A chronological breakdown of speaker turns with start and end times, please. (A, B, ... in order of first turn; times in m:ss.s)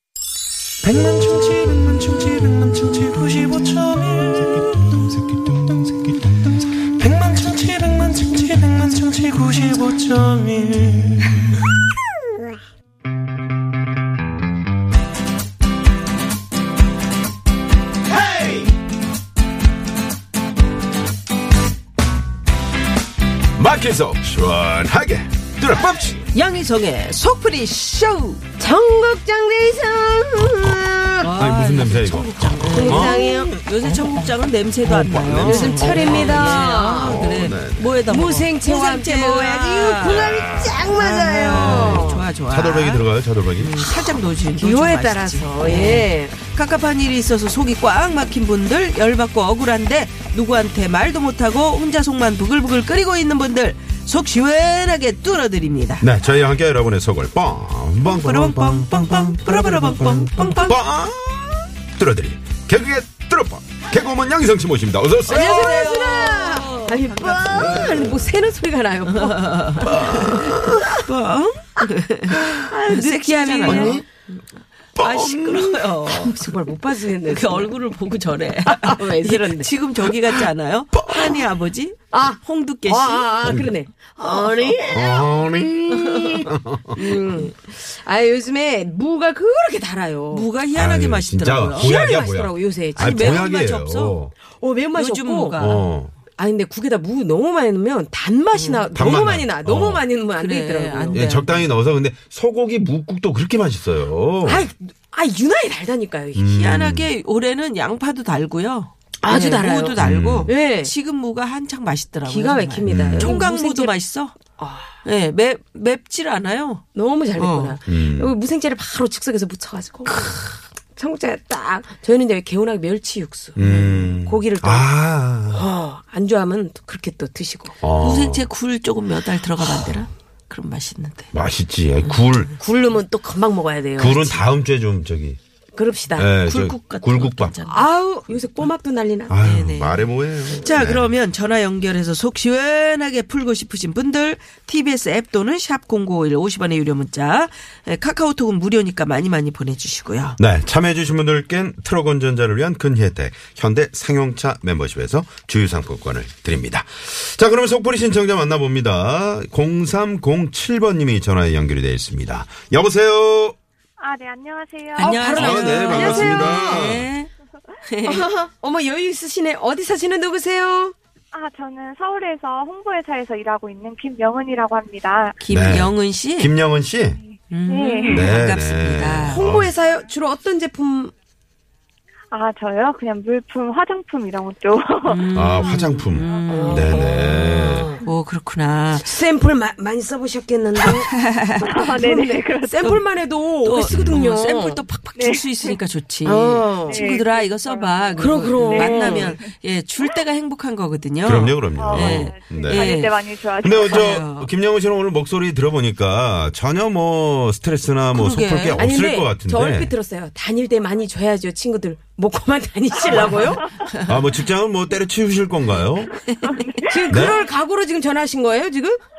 0:00.8-0:05.9 A
0:07.0-0:11.3 A
0:18.2-0:18.5 B
0:23.6-0:26.3 B
0:26.3-0:28.4 C
0:28.6-0:31.3 D
0:31.2-0:56.1 C
0:31.4-0:34.3 B
0:32.7-0:33.6 D
0:34.8-0:37.9 B
0:35.4-0:37.4 D
0:38.1-0:42.2 D
0:40.3-0:40.9 B
0:41.5-0:43.7 B
0:43.7-0:46.4 D
0:56.0-1:05.7 B
0:58.0-1:00.8 C
1:05.3-1:10.2 D
1:05.3-1:08.2 C
1:07.5-1:08.3 B
1:09.1-1:14.4 C
1:09.8-1:10.8 B
1:12.4-1:14.0 D
1:13.7-1:14.0 B
1:14.9-1:16.5 C
1:15.0-1:15.7 B
1:16.1-1:17.8 D
1:17.2-1:23.7 C
1:18.7-1:19.7 D
1:22.1-1:25.2 D
1:23.4-1:23.7 B
1:24.2-1:25.0 C
1:24.7-1:27.0 B
1:26.9-1:30.5 D
1:30.3-1:31.9 C
1:30.7-1:34.3 B
1:31.8-1:33.5 D
1:33.0-1:34.2 C
1:34.4-1:35.6 D
1:34.9-1:35.9 C
1:35.6-1:36.1 B
1:36.3-1:41.5 D
1:38.5-1:38.9 C
1:38.9-1:40.0 B
1:40.3-1:41.5 C
1:41.1-1:44.7 B
1:44.4-1:46.4 D
1:46.3-1:47.1 B
1:46.5-1:54.4 C
1:49.2-1:50.9 D
1:50.0-1:50.5 B
1:52.3-1:53.9 D
1:52.8-1:53.4 B
1:54.6-1:55.0 D
1:55.0-1:56.8 C
1:56.9-2:00.2 D
1:57.4-1:57.8 C
1:57.9-1:58.4 B
2:00.0-2:00.6 C
2:01.0-2:04.9 D
2:03.6-2:05.7 B
2:05.5-2:07.8 D
2:07.8-2:08.5 B
2:08.0-2:11.3 C
2:11.3-2:12.5 B
2:12.0-2:12.3 C
2:12.6-2:14.4 D
2:14.0-2:15.4 B
2:15.7-2:16.3 D
2:16.2-2:17.5 B
2:16.4-2:17.8 C
2:17.6-2:19.4 D
2:19.3-2:21.1 B
2:19.4-2:30.4 C
2:30.4-2:43.6 B
2:44.0-2:45.3 E
2:45.0-2:46.9 D
2:45.0-2:47.3 C
2:45.3-2:47.1 B
2:47.8-2:48.2 C
2:48.0-2:50.9 D
2:51.3-2:55.4 E
2:55.4-2:56.5 C
2:55.5-2:57.2 B
2:57.2-2:58.3 E
2:57.5-2:59.4 C
2:58.0-2:58.2 D
2:58.1-2:59.7 B
2:59.3-3:01.1 D
3:02.3-3:06.7 E
3:05.0-3:07.2 C
3:05.3-3:07.9 B
3:06.5-3:08.0 D
3:08.0-3:09.1 C
3:08.9-3:14.8 D
3:10.8-3:11.6 C
3:11.6-3:12.8 E
3:12.8-3:13.0 C
3:13.6-3:23.2 C
3:13.9-3:14.2 B
3:15.1-3:15.8 E
3:16.2-3:17.0 D
3:16.8-3:19.5 E
3:18.2-3:19.3 D
3:21.2-3:22.9 B
3:21.8-3:24.2 E
3:23.6-3:29.9 B
3:23.8-3:24.5 C
3:28.1-3:28.8 C
3:28.8-3:33.8 D
3:34.0-3:36.1 B
3:36.2-3:36.8 C
3:36.4-3:37.0 E
3:36.8-3:39.0 D
3:37.1-3:37.4 B